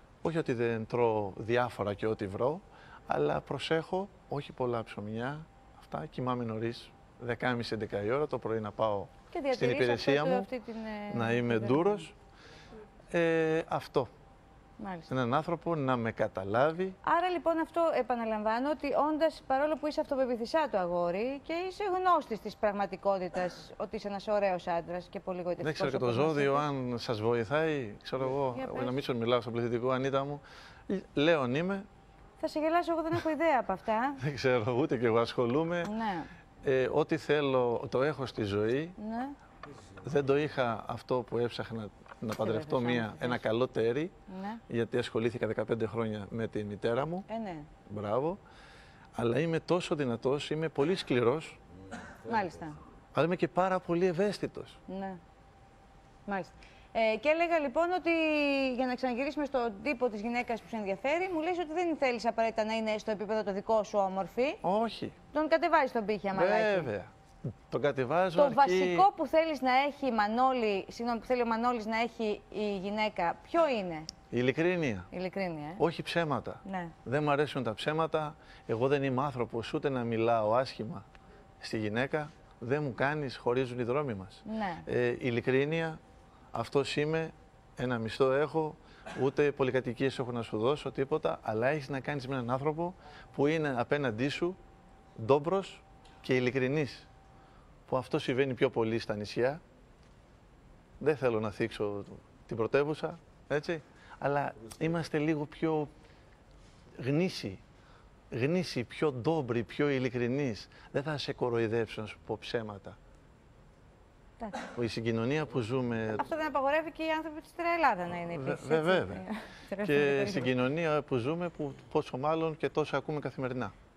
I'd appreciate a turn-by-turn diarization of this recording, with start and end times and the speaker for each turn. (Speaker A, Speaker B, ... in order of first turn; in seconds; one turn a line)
Speaker A: 0.2-10.5
Speaker B: 9.3-12.1
Speaker A: 11.1-12.1
Speaker A: 13.1-14.1
Speaker B: 14.8-15.1
Speaker A: 15.1-17.0
Speaker B: 17.0-26.7
Speaker A: 25.6-31.9
Speaker B: 28.5-29.0
Speaker B: 32.4-34.2
Speaker A: 34.2-35.9
Speaker B: 35.9-36.3
Speaker A: 36.6-39.0
Speaker B: 39.0-39.3
Speaker A: 40.0-44.1
Speaker B: 42.4-43.4
Speaker B: 44.3-44.6
Speaker A: 44.7-47.3
Speaker B: 47.3-47.7
Speaker A: 47.9-48.4
Speaker A: 49.1-51.6
Speaker B: 52.3-52.8
Speaker A: 53.1-54.8
Speaker B: 54.9-55.2
Speaker B: 56.3-64.6
Speaker A: 64.6-65.2
Speaker B: 65.3-66.9
Speaker A: 66.3-67.1
Speaker A: 67.7-69.1
Speaker B: 68.4-74.1
Speaker A: 74.3-75.1
Speaker B: 75.1-75.8
Speaker A: 75.8-81.1
Speaker B: 76.7-76.9
Speaker A: 81.6-86.0
Speaker B: 84.5-84.8
Speaker A: 86.5-94.6
Speaker A: 95.2-97.1
Speaker A: 97.9-99.6
Speaker A: 101.0-105.9
Speaker A: 107.0-107.6
Speaker A: 108.3-113.0
Speaker A: 114.7-116.2
Speaker B: 116.2-120.5
Speaker A: 118.3-119.2
Speaker A: 119.8-123.7